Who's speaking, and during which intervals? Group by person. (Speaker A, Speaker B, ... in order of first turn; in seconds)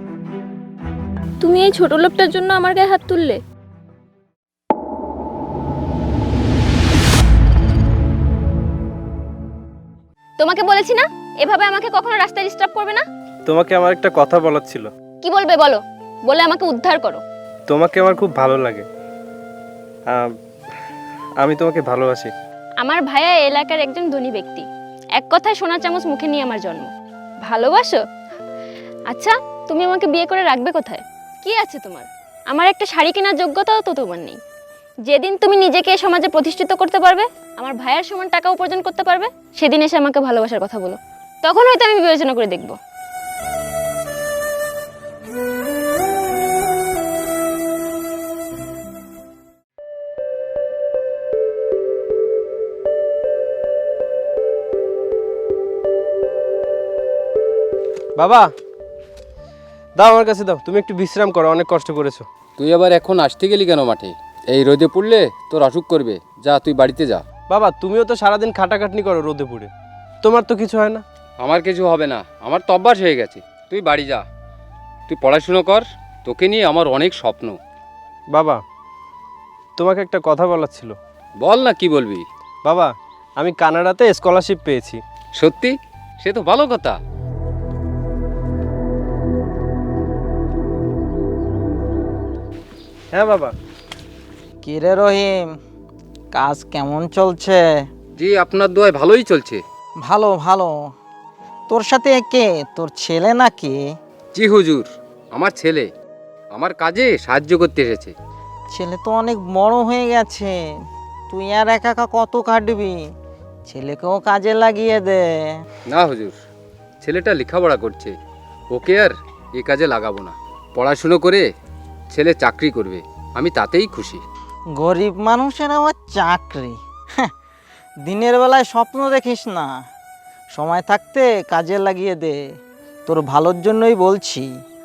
Speaker A: 1.4-3.4, 10.4-13.1, 15.2-17.2, 22.8-24.7, 25.2-26.9, 27.4-28.0, 29.1-34.4, 35.1-42.8
Speaker B: 13.5-14.9, 17.7-18.9, 21.4-22.3, 58.2-58.5, 60.0-62.3, 67.5-69.7, 70.2-71.0, 78.3-78.6, 79.8-81.0, 82.7-85.0, 93.1-93.5
Speaker C: 62.6-67.2, 71.4-74.2, 75.1-77.6, 81.4-82.2, 85.4-87.0, 98.2-99.6, 104.3-105.9, 106.5-108.1, 115.9-116.4, 117.0-118.1, 118.8-121.4, 122.1-124.2
Speaker D: 94.6-95.5, 96.3-97.6, 100.0-100.8, 101.7-103.8, 108.7-110.6, 111.3-113.0, 113.7-115.6, 124.8-127.3, 128.1-129.8, 130.6-132.4, 133.1-134.5